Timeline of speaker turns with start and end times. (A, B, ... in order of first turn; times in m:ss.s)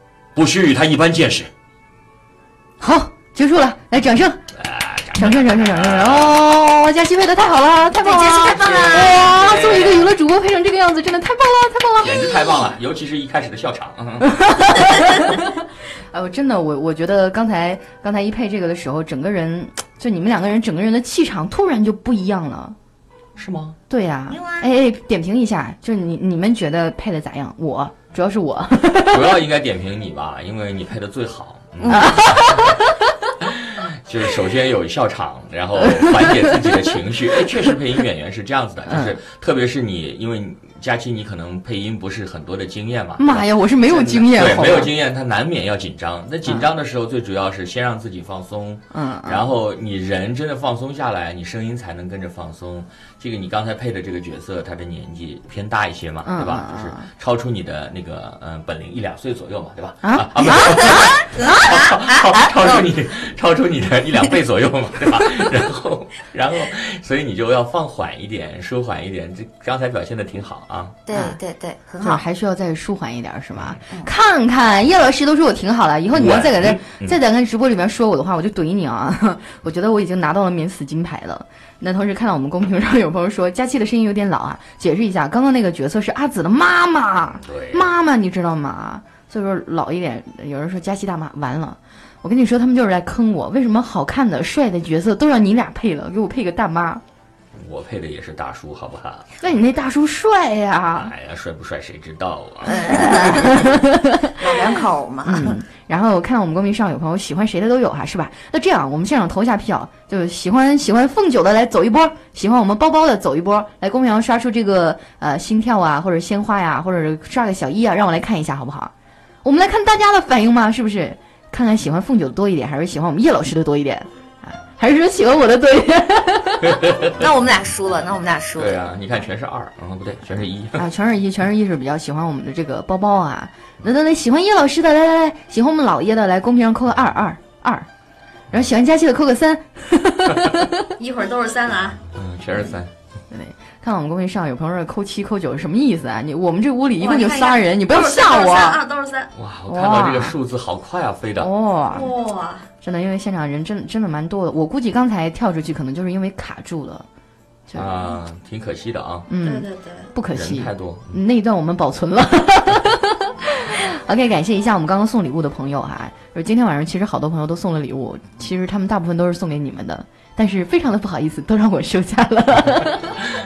0:00.4-0:01.5 A
0:02.8-0:04.4 B
0:04.5-0:06.4 A
0:05.1-0:12.7 B
0:08.0-0:09.3 C
0:08.6-0:10.1 A
0:12.0-0:14.3 A
0:14.3-0:15.5 B
0:16.1-0:22.8 B
0:23.4-0:23.8 A
0:23.9-0:29.4 B
0:24.3-0:24.7 C
0:29.1-0:32.6 A
0:31.8-0:32.8 B
0:33.4-1:11.0 A
0:35.9-0:36.7 B
0:38.9-0:39.2 B
0:43.2-0:44.9 B
0:48.9-0:49.5 B
0:56.2-0:57.1 B
1:00.0-1:01.3 B
1:00.8-1:02.9 C
1:11.1-1:12.2 C
1:11.1-1:11.4 B
1:12.0-1:37.0 B
1:16.1-1:17.2 A
1:27.4-1:27.9 A
1:37.6-1:39.4 A
1:39.4-1:41.1 B
1:40.9-1:43.6 A
1:42.7-1:43.5 C
1:42.7-1:44.4 B
1:44.4-1:45.6 C
1:45.2-1:58.9 B
1:59.4-2:06.9 B
2:07.0-2:08.8 C
2:08.6-2:10.9 A
2:10.8-2:17.9 B
2:18.5-2:20.8 B
2:21.0-2:22.0 C
2:22.1-2:22.9 A
2:23.3-2:28.8 B
2:27.0-2:29.3 C
2:29.3-2:31.5 A
2:29.7-2:30.4 B
2:31.4-2:32.1 B
2:31.9-2:32.7 C
2:32.8-2:37.1 B
2:37.7-2:38.0 B
2:37.7-2:39.3 A
2:39.3-2:53.1 B
2:39.4-2:40.1 C
2:40.3-2:41.2 A